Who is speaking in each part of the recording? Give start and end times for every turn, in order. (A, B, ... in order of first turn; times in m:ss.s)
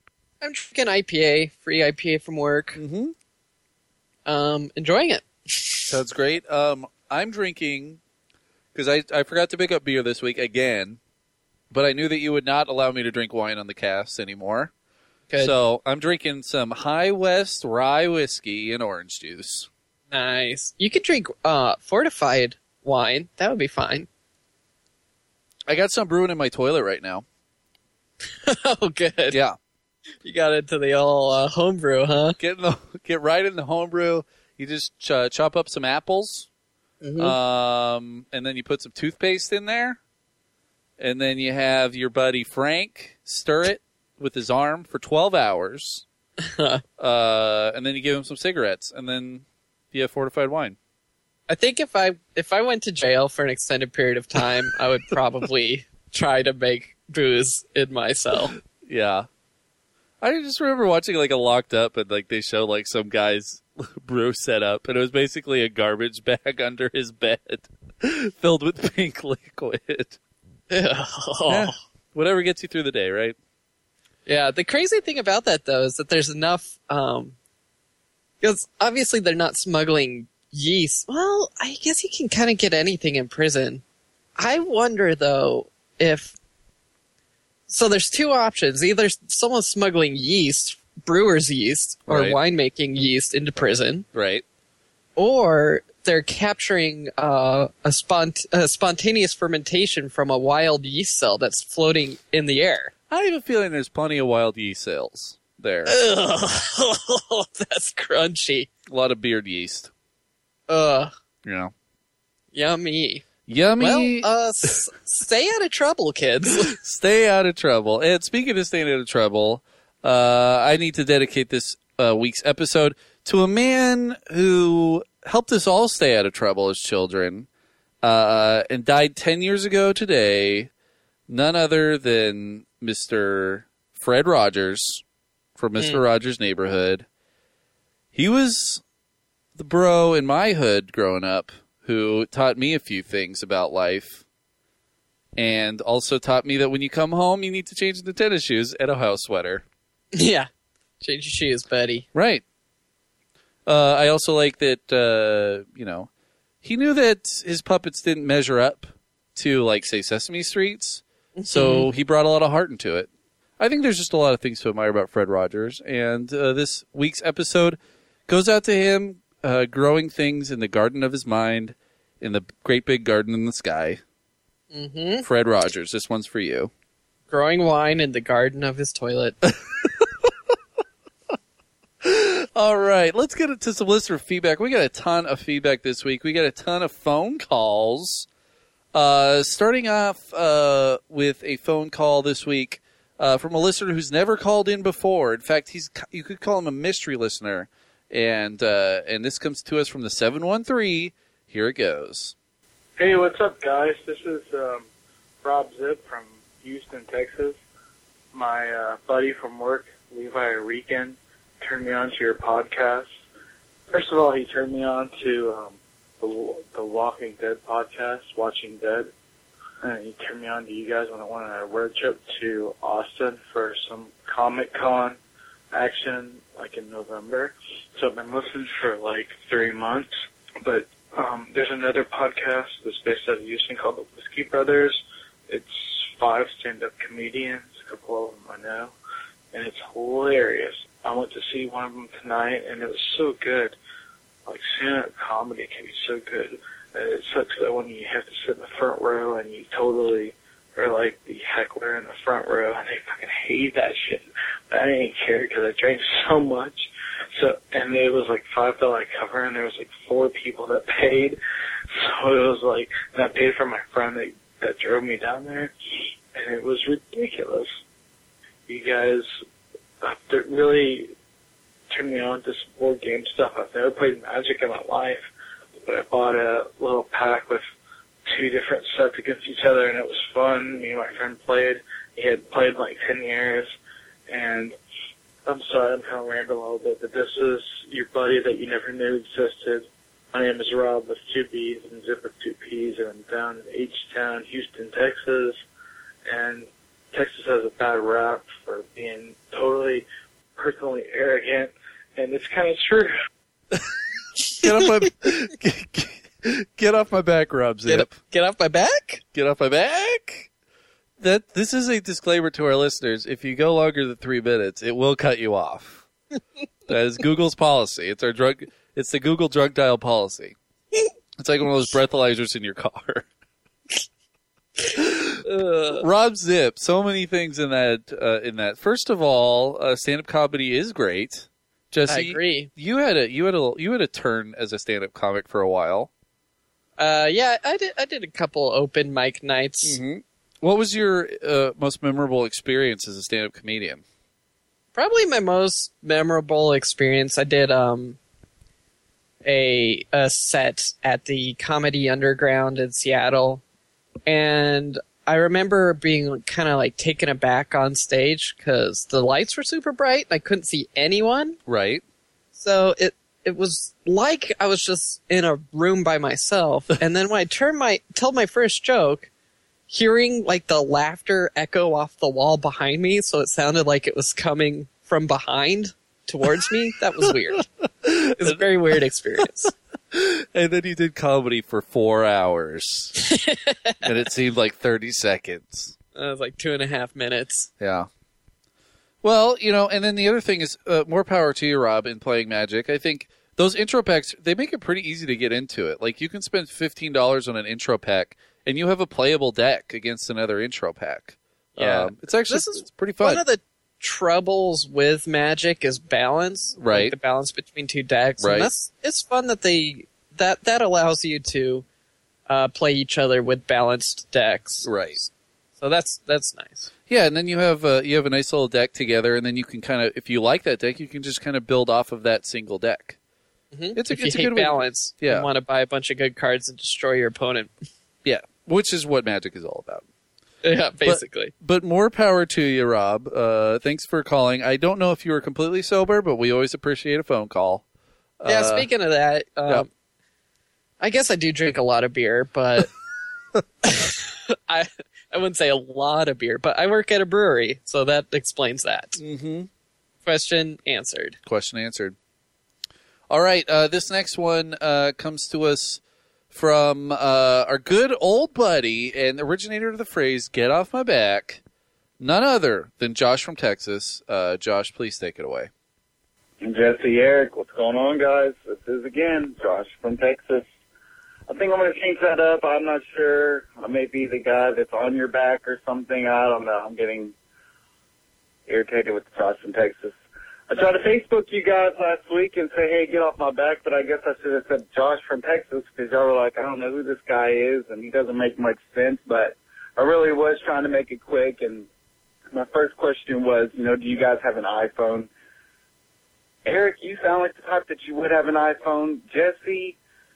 0:00.4-0:02.8 A
0:02.8-0:03.1 B
0:04.2-0:05.9 A
0:05.9-0:08.0 B
0:08.7-0:11.0 B
0:11.7-0:14.7 B
0:15.4-0:19.7 B
0:20.1-0:24.1 A
0:25.7-0:27.2 B
0:28.4-0:29.4 A
0:29.3-0:29.6 B
0:30.2-0:32.4 A
0:32.4-0:36.5 B
0:37.0-0:37.4 A
0:37.2-0:40.0 B
0:41.0-0:46.0 B
0:46.4-0:46.8 A
0:47.0-0:50.8 B
0:51.5-0:58.5 A
0:58.6-0:59.3 B
1:00.2-1:10.2 B
1:10.7-1:11.7 A
1:11.5-1:13.4 B
1:14.2-1:17.4 A
1:18.4-1:23.8 A
1:24.4-1:26.3 A
1:27.7-1:34.0 A
1:32.1-1:32.4 B
1:34.1-1:34.4 B
1:35.2-1:42.9 A
1:43.1-1:45.9 B
1:45.8-1:48.7 A
1:48.9-1:49.9 B
1:50.7-1:51.1 A
1:51.4-1:51.7 B
1:52.5-1:53.2 A
1:53.5-1:54.3 B
1:53.8-1:56.8 A
1:56.7-2:07.5 B
2:08.0-2:10.7 B
2:11.3-2:15.0 B
2:15.6-2:17.0 B
2:18.1-2:18.8 B
2:19.5-2:24.2 B
2:25.4-2:29.6 B
2:30.1-2:30.5 A
2:31.0-2:32.0 A
2:32.1-2:32.4 B
2:33.6-2:36.1 B
2:36.6-2:54.0 B
2:41.4-2:41.9 A
2:54.7-2:55.2 A
2:55.2-2:56.7 B
2:57.3-2:59.4 A
2:59.5-3:00.3 B
3:02.0-3:08.3 B
3:08.9-3:22.3 B
3:23.0-3:24.9 C
3:25.4-3:27.6 C
3:28.3-3:33.1 C
3:33.9-3:39.1 C
3:39.8-3:45.2 C
3:45.7-3:50.1 C
3:50.6-3:58.9 C
3:59.5-4:03.8 C
4:04.4-4:16.8 C
4:17.4-4:21.4 C
4:21.9-4:25.7 C
4:26.3-4:27.7 C
4:28.7-4:29.3 C
4:30.0-4:31.1 C
4:31.9-4:35.2 C
4:35.8-4:37.6 C
4:38.3-4:43.7 C
4:44.3-4:44.7 C
4:45.4-4:55.6 C
4:56.3-5:03.1 C
5:04.6-5:08.2 B
5:07.8-5:09.2 A
5:09.3-5:10.5 B
5:11.2-5:16.0 B
5:16.9-5:20.6 B
5:21.4-5:23.3 B
5:25.0-5:36.1 B
5:25.4-5:26.0 A
5:32.1-5:32.7 A
5:37.0-5:40.0 A
5:39.8-5:44.0 B
5:45.0-5:48.2 A
5:49.4-5:53.6 A
5:54.2-6:01.6 A
6:01.7-6:02.0 B
6:02.6-6:09.3 A
6:09.9-6:17.6 A
6:18.0-6:18.6 B
6:18.4-6:19.7 A
6:20.1-6:23.1 B
6:23.2-6:23.9 A
6:24.0-6:26.0 B
6:26.2-6:27.7 A
6:27.8-6:28.1 B
6:29.2-6:43.4 B
6:41.8-6:51.8 A
6:46.8-6:47.1 B
6:48.4-6:48.7 B
6:52.5-6:55.3 A
6:54.8-6:55.2 B
6:55.8-6:56.9 A
6:57.1-7:03.2 B
7:03.7-7:07.7 A
7:03.9-7:05.5 B
7:08.2-7:10.0 B
7:10.6-7:11.5 A
7:11.0-7:17.8 B
7:18.4-7:18.9 B
7:18.5-7:19.9 A
7:21.0-7:22.9 A
7:23.8-7:29.2 A
7:29.2-7:29.7 B
7:30.2-7:31.4 A
7:31.4-7:32.2 B
7:33.3-7:36.0 B
7:36.5-7:41.6 B
7:42.2-7:45.7 B
7:46.6-7:50.6 D
7:51.5-7:57.3 D
7:58.7-8:00.2 D
8:00.7-8:11.9 D
8:12.5-8:15.3 D
8:16.6-8:20.0 D